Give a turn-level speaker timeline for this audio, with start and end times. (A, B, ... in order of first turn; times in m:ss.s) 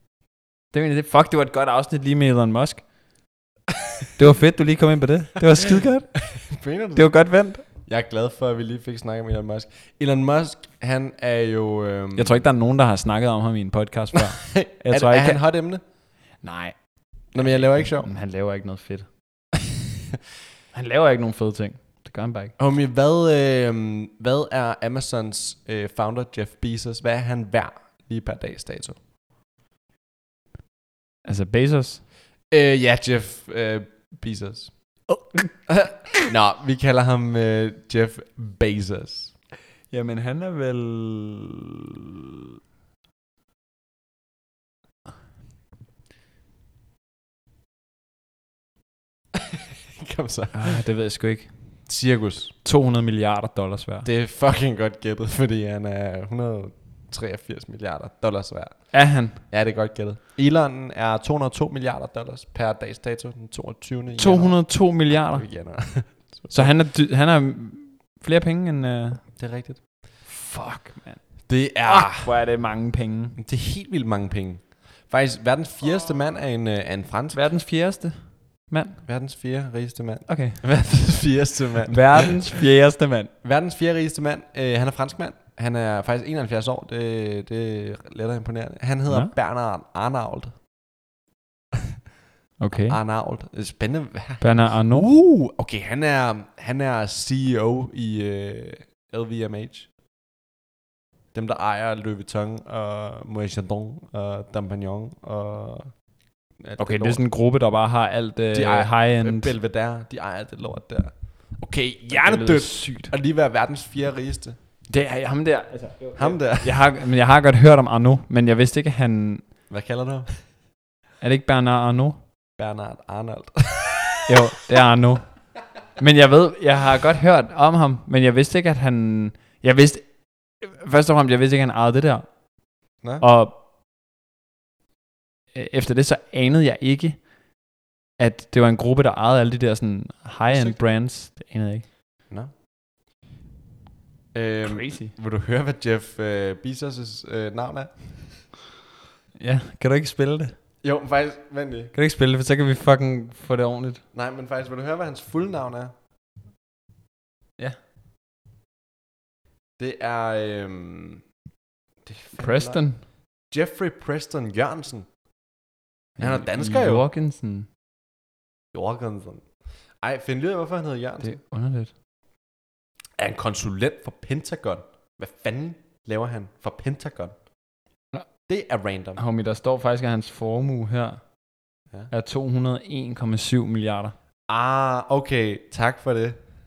0:00.7-0:02.9 A
0:04.2-0:06.3 A
0:06.3-0:12.4 B
0:07.0-0:07.6 A
0:12.2-0:15.4 A
0:14.1-0:15.8 B
0:16.4-0:19.1 A
0:17.3-0:18.1 B
0:20.7-0:22.6 A
0:22.6-0:29.0 B
0:31.2-0:32.0 A
0:32.5-0:35.1 B
0:35.1-0:35.6 A
0:35.7-0:39.4 B
0:39.9-0:41.7 A
0:49.5-0:50.8 B
0:50.5-0:51.8 A
0:51.9-0:52.5 B
0:52.6-0:54.1 A
0:54.0-1:06.8 B
0:58.9-0:59.4 A
1:04.2-1:05.5 A
1:06.5-1:09.2 A
1:09.4-1:09.8 B
1:10.3-1:13.4 A
1:11.5-1:12.3 B
1:13.4-1:17.4 B
1:17.3-1:19.0 A
1:19.0-1:22.4 B
1:20.3-1:20.6 A
1:21.9-1:23.3 A
1:23.4-1:30.6 B
1:32.6-1:33.0 A
1:32.8-1:39.9 B
1:34.4-1:35.1 A
1:41.3-1:46.0 B
1:46.6-1:47.2 B
1:46.8-1:49.5 A
1:48.5-1:54.6 B
1:52.1-1:53.1 A
1:54.9-1:59.5 A
1:56.2-1:56.9 B
1:59.7-2:00.4 B
2:01.2-2:02.2 A
2:02.6-2:04.3 B
2:04.3-2:05.3 A
2:06.0-2:12.4 A
2:13.2-2:13.5 A
2:15.6-2:17.3 A
2:18.2-2:21.9 A
2:20.5-2:20.8 B
2:24.3-2:28.5 B
2:24.6-2:25.1 A
2:29.4-2:30.6 A
2:30.8-2:31.9 B
2:31.9-2:34.0 A
2:34.1-2:35.9 B
2:39.8-2:41.2 B
2:42.0-2:42.9 B
2:42.4-2:43.0 A
2:43.4-2:45.1 B
2:46.2-2:47.7 A
2:46.2-2:47.0 B
2:48.7-2:49.5 B
2:50.0-2:51.4 B
2:51.2-2:51.9 A
2:53.2-2:57.4 B
2:58.5-2:59.2 B
2:59.2-3:01.3 A
3:02.1-3:04.2 A
3:04.5-3:06.4 B